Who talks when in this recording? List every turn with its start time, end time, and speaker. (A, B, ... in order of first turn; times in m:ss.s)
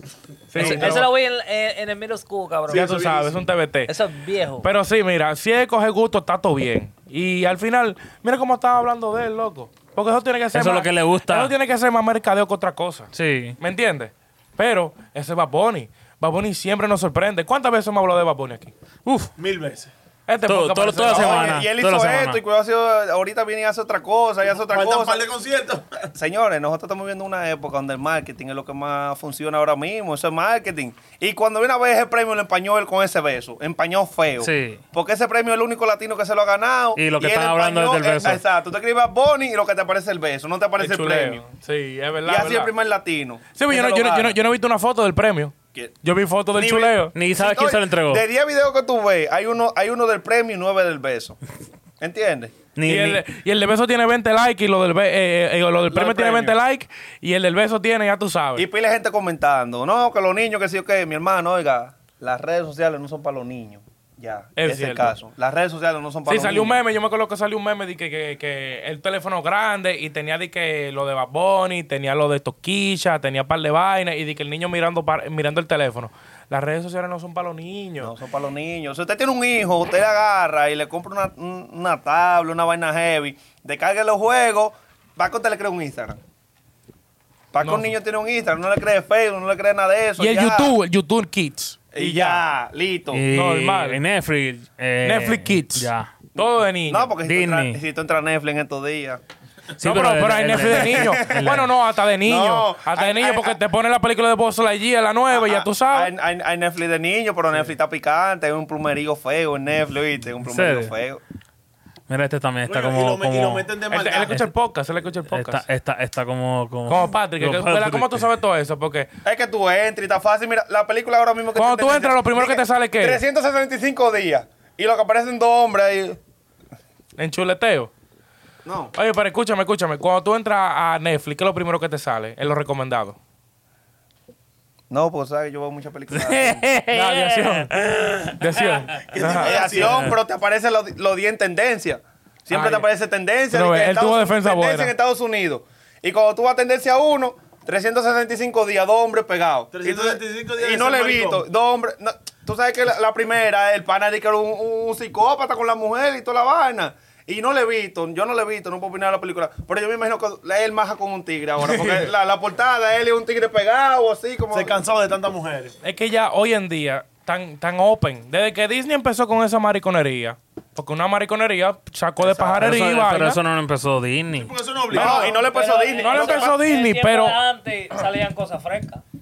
0:00.5-0:01.1 A
0:00.6-0:03.0 B
0:00.6-0:00.9 C
0:02.7-0:03.4 D
0:02.7-0:03.9 A
0:03.9-0:04.7 B
0:04.6-0:18.7 A
0:10.5-0:11.5 E
0:13.1-0:13.6 E
0:19.1-0:19.3 E
0:19.4-0:19.9 D
0:20.3-0:21.6 A
0:20.5-0:22.4 E
0:21.0-0:25.2 C
0:24.7-0:26.1 D
0:26.2-0:41.4 C
0:34.4-0:34.8 E
0:37.0-0:38.4 E
0:40.8-0:42.7 A
0:42.2-0:44.4 C
0:43.6-0:47.1 A
0:46.5-0:51.4 C
0:47.2-0:48.2 E
0:52.0-0:52.6 C
0:52.8-0:53.2 E
0:52.9-0:58.7 A
0:55.9-0:56.6 C
0:58.6-1:06.8 C
1:04.6-1:05.2 A
1:06.3-1:18.1 A
1:18.0-1:26.2 C
1:27.5-1:30.7 C
1:27.6-1:27.9 A
1:30.2-1:32.4 A
1:31.9-1:33.2 C
1:33.1-1:36.1 E
1:33.3-1:34.0 A
1:35.0-1:37.1 A
1:36.3-1:39.2 C
1:37.2-1:37.8 E
1:39.8-1:41.7 E
1:39.8-1:46.1 A
1:40.7-1:41.6 C
1:42.2-1:43.6 C
1:45.3-1:51.2 C
1:50.4-1:50.9 E
1:52.1-1:53.7 E
1:52.7-1:54.5 D
1:53.9-1:55.6 A
1:55.3-1:58.2 E
1:56.9-1:59.1 A
1:59.2-2:06.2 C
2:01.6-2:03.2 A
2:07.2-2:07.9 A
2:08.6-2:08.9 C
2:08.9-2:13.2 A
2:14.9-2:16.6 C
2:16.2-2:18.7 E
2:16.9-2:17.7 A
2:18.3-2:19.5 A
2:19.0-2:20.1 D
2:19.2-2:44.8 C
2:22.5-2:22.9 A
2:23.5-2:24.9 A
2:29.7-2:31.4 D
2:41.6-2:42.0 A
2:44.5-2:45.7 D
2:45.8-2:53.4 A
2:52.2-2:52.6 C
2:52.6-2:54.5 E
2:54.3-2:55.4 D
2:54.9-2:56.6 C
2:55.0-2:59.0 B
2:56.0-2:57.4 A